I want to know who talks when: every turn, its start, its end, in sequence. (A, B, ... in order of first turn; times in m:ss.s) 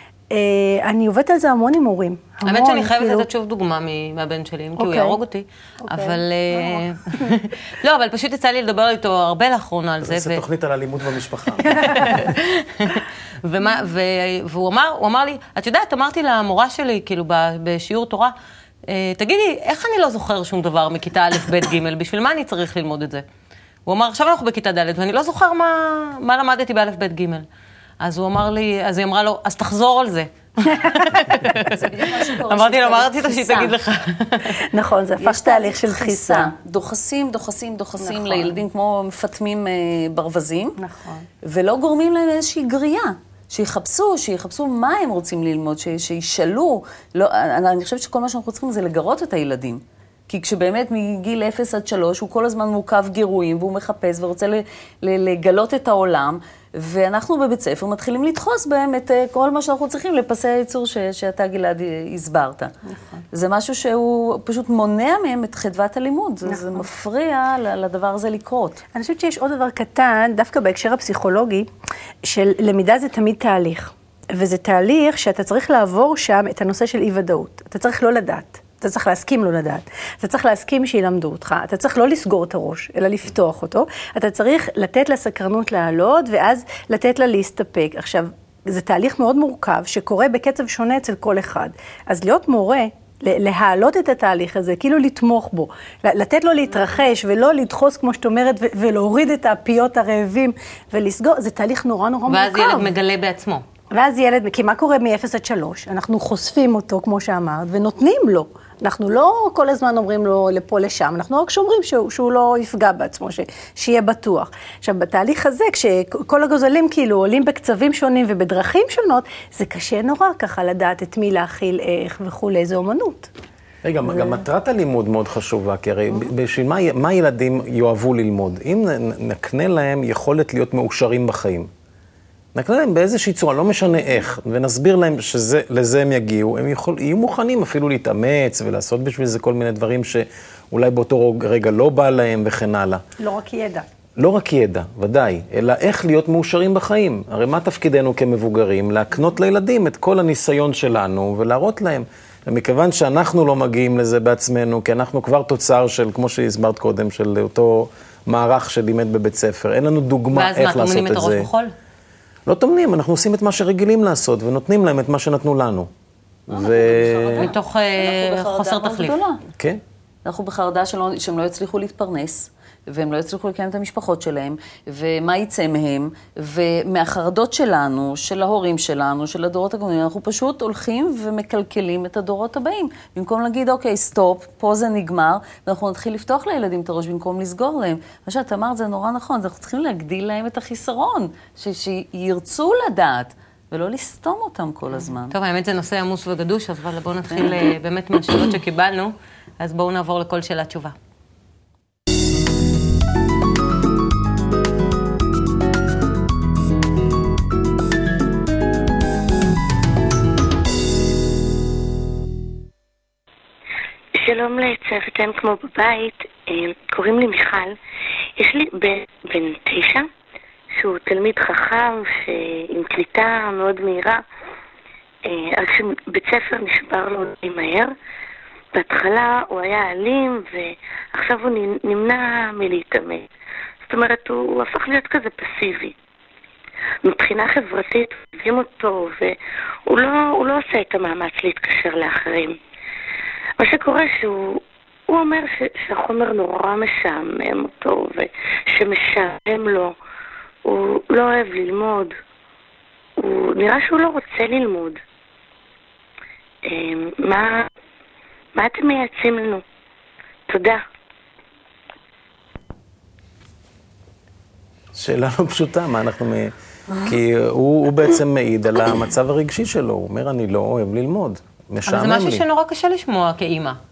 0:00.3-0:03.3 A
0:02.4-0:10.4 B
0:04.8-0:05.2 A
0:05.9-0:07.4 A
0:10.0-0:12.2 C
0:11.8-0:18.3 B
0:18.9-0:23.2 B
0:23.9-0:27.5 B
0:28.0-0:34.6 B
0:31.6-0:33.8 D
0:34.5-0:36.5 A
0:35.2-0:40.8 D
0:38.0-0:38.6 A
0:40.8-0:41.3 A
0:41.4-1:02.7 D
1:02.9-1:03.2 A
1:03.3-1:08.8 D
1:06.5-1:06.8 A
1:09.0-1:11.7 A
1:12.2-1:42.9 A
1:42.3-1:43.6 B
1:43.9-2:03.3 A
2:03.8-2:11.7 C
2:12.5-2:23.0 C
2:23.2-2:23.9 A
2:24.2-2:41.5 C
2:40.3-2:41.7 B
2:42.5-2:45.9 C
2:46.5-2:47.4 C
2:46.5-2:49.4 D
2:47.4-2:49.2 B
2:49.6-2:49.8 C
2:50.2-3:15.4 D
3:15.3-3:21.0 B
3:34.2-3:37.8 E
3:38.4-3:40.1 E
3:40.7-3:44.2 E
3:45.3-3:47.9 E
3:48.7-3:53.3 E
3:53.8-3:56.0 E
3:57.0-3:59.4 E
3:59.9-4:02.6 E
4:03.6-4:09.9 E
4:10.6-4:12.2 E
4:13.2-4:15.0 E
4:16.7-4:17.7 E
4:18.6-4:19.6 E
4:20.5-4:20.8 E
4:25.0-4:32.4 C
4:31.9-4:33.8 B